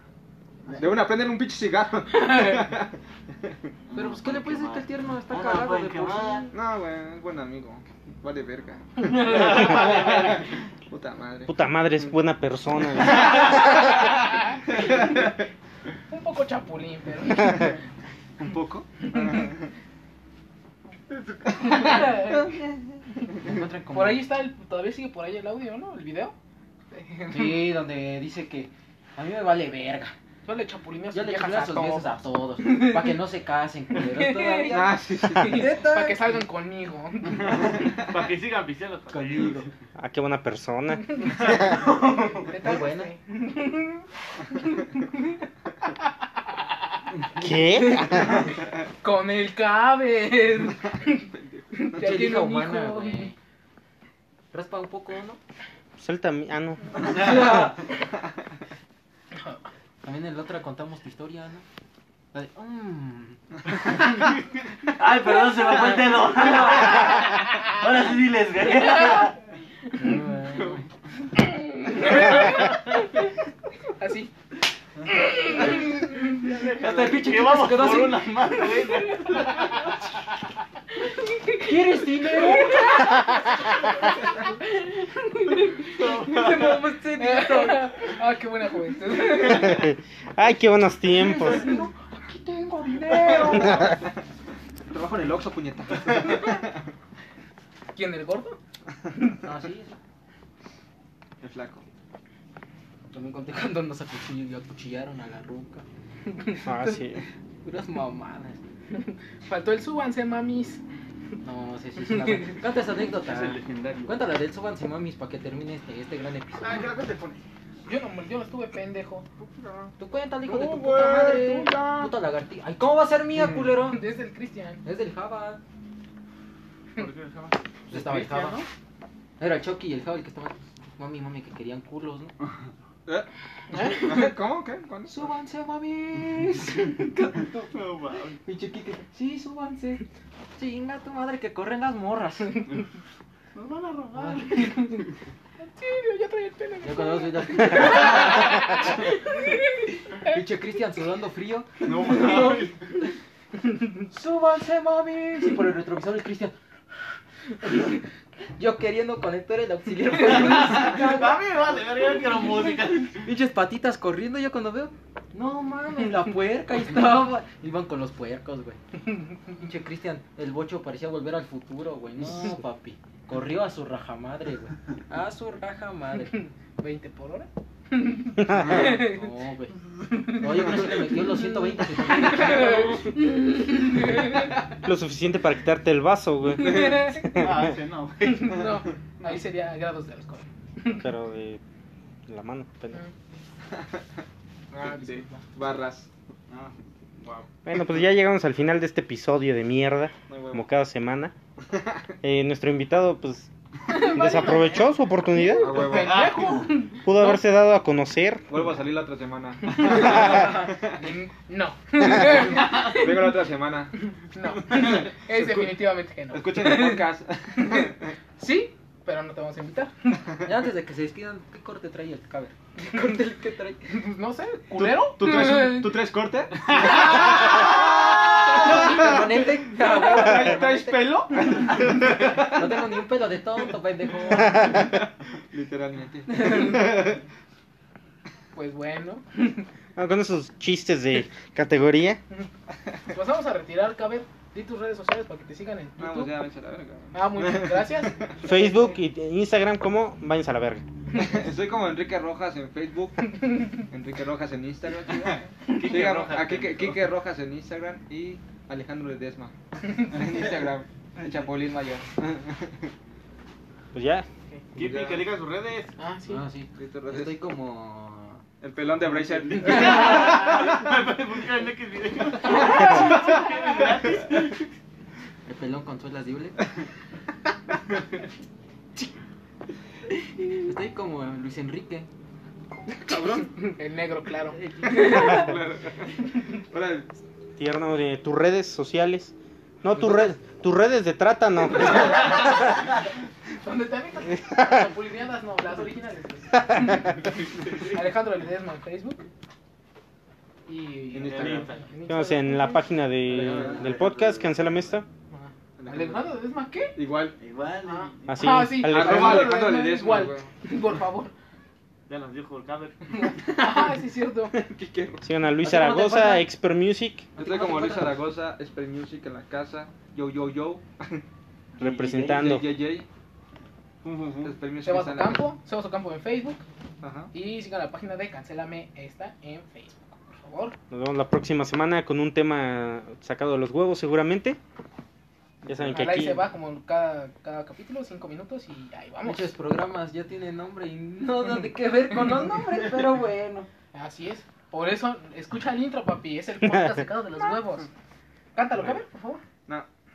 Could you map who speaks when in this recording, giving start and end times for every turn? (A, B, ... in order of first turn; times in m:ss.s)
0:00.8-0:03.0 A
0:02.2-0:02.6 B
0:03.9-0:06.6 C
0:03.9-0:06.6 D
0:06.5-0:11.5 A
0:09.0-0:09.7 B
0:09.2-0:10.4 E
0:11.5-0:13.6 F
0:14.8-0:15.2 B
0:16.1-0:17.8 B
0:18.4-0:19.5 A
0:21.5-0:22.6 B
0:23.4-0:24.3 D
0:23.9-0:26.4 B
0:26.9-0:27.7 B
0:27.3-0:30.2 D
0:30.4-0:33.2 B
0:31.1-0:36.4 D
0:34.0-0:37.9 B
0:34.7-0:35.7 A
0:37.7-0:39.6 E
0:39.1-0:39.7 D
0:40.0-0:41.3 F
0:41.1-0:44.0 B
0:41.8-0:42.5 C
0:42.5-0:43.1 D
0:44.6-0:45.2 B
0:47.4-0:48.5 F
0:47.8-0:48.3 B
0:49.0-0:53.3 B
0:51.3-0:52.0 A
0:52.0-0:53.4 D
0:54.5-0:55.4 D
0:56.0-0:57.5 F
0:57.0-0:57.8 D
1:00.0-1:01.6 D
1:02.3-1:03.4 D
1:05.0-1:09.4 C
1:10.0-1:10.8 D
1:11.4-1:13.3 B
1:14.0-1:14.3 B
1:15.1-1:16.5 B
1:16.2-1:19.7 E
1:16.7-1:19.4 D
1:17.3-1:17.9 C
1:18.7-1:19.9 B
1:21.0-1:26.6 B
1:21.6-1:23.3 D
1:26.0-1:26.7 E
1:26.0-1:28.0 D
1:27.1-1:29.9 B
1:29.4-1:31.7 F
1:31.5-1:33.9 D
1:31.6-1:31.9 B
1:33.3-1:33.8 B
1:33.4-1:34.0 A
1:34.9-1:36.8 A
1:38.0-1:38.6 B
1:39.4-1:40.0 D
1:41.4-1:41.8 A
1:43.1-1:45.8 D
1:46.6-1:47.2 F
1:47.6-1:48.6 D
1:48.9-1:50.8 B
1:51.4-1:56.9 D
1:53.3-1:54.2 E
1:56.6-1:57.4 E
1:57.8-1:59.3 B
1:59.6-1:59.9 E
2:00.0-2:04.0 D
2:00.5-2:02.0 E
2:03.8-2:04.8 B
2:04.8-2:05.6 D
2:07.0-2:08.6 E
2:07.9-2:08.7 D
2:09.4-2:12.3 D
2:13.7-2:14.3 B
2:13.8-2:15.3 A
2:15.1-2:17.7 D
2:17.6-2:18.4 E
2:18.4-2:20.0 D
2:20.6-2:22.7 D
2:23.6-2:24.8 E
2:24.1-2:24.8 D
2:24.7-2:25.0 B
2:25.6-2:29.9 B
2:26.8-2:28.6 D
2:30.3-2:32.7 D
2:31.8-2:32.8 E
2:34.1-2:36.5 D
2:37.6-2:38.0 D
2:38.6-2:41.4 D
2:40.2-2:43.2 E
2:43.2-2:48.8 D
2:49.5-2:56.4 D
2:56.3-2:59.2 B
2:58.6-3:03.0 D
2:58.6-2:58.9 A
3:02.2-3:04.5 B
3:04.8-3:07.3 F
3:06.6-3:07.5 B
3:07.3-3:08.7 E
3:08.2-3:11.0 B
3:10.9-3:11.6 F
3:12.3-3:13.0 F
3:14.7-3:15.5 B
3:14.8-3:16.1 A
3:16.5-3:17.4 E
3:17.6-3:21.3 F
3:20.3-3:20.6 A
3:21.7-3:22.0 A
3:22.2-3:25.9 F
3:23.9-3:27.4 B
3:25.6-3:26.3 A
3:25.9-3:26.6 E
3:27.0-3:28.5 F
3:28.5-3:31.0 A
3:29.8-3:33.3 B
3:32.3-3:34.0 A
3:34.3-3:40.2 B
3:34.6-3:35.8 A
3:36.3-3:38.1 A
3:40.4-3:43.9 D
3:43.8-3:46.0 B
3:44.8-3:52.6 A
3:48.6-3:51.1 D
3:52.3-3:54.8 D
3:55.5-3:57.2 A
3:58.6-3:59.6 B
4:00.0-4:02.2 F
4:03.1-4:06.3 B
4:06.0-4:08.4 A
4:07.1-4:09.0 B
4:08.4-4:10.8 F
4:11.1-4:22.9 A
4:15.7-4:17.1 E
4:23.9-4:24.3 F
4:24.8-4:25.9 E
4:24.8-4:25.3 A
4:26.0-4:26.4 B
4:26.3-4:28.4 D
4:26.8-4:27.4 A
4:28.6-4:30.8 A
4:29.4-4:34.6 E
4:32.6-4:33.1 B
4:35.5-4:36.6 D
4:40.6-4:42.1 D
4:43.0-4:43.5 A
4:43.6-4:45.4 B
4:44.6-4:45.3 D
4:44.9-4:47.1 A
4:47.6-4:52.5 F
4:53.6-4:57.2 B
4:57.9-4:59.3 B
5:00.7-5:02.9 B
5:01.1-5:01.8 A
5:01.3-5:01.8 E
5:02.1-5:05.1 F
5:03.2-5:03.9 A
5:05.3-5:07.0 B
5:05.8-5:06.4 A
5:07.0-5:07.4 A
5:07.4-5:08.4 E
5:07.4-5:08.1 C
5:07.9-5:11.3 B
5:08.3-5:09.6 F
5:08.8-5:10.5 A
5:12.1-5:13.4 E
5:13.2-5:14.6 B
5:13.6-5:13.8 A
5:14.5-5:15.3 A
5:15.2-5:17.3 F
5:15.6-5:16.5 D
5:17.4-5:18.2 D
5:17.4-5:21.2 A
5:21.8-5:23.1 A
5:21.8-5:22.7 F
5:24.0-5:24.6 E
5:24.4-5:25.5 A
5:24.8-5:26.6 B
5:27.0-5:27.3 A
5:27.3-5:30.8 B
5:30.9-5:34.6 F
5:35.6-5:35.9 A
5:35.7-5:36.4 F
5:35.9-5:39.5 B
5:39.2-5:43.7 D
5:43.9-5:47.9 B
5:48.6-5:49.4 B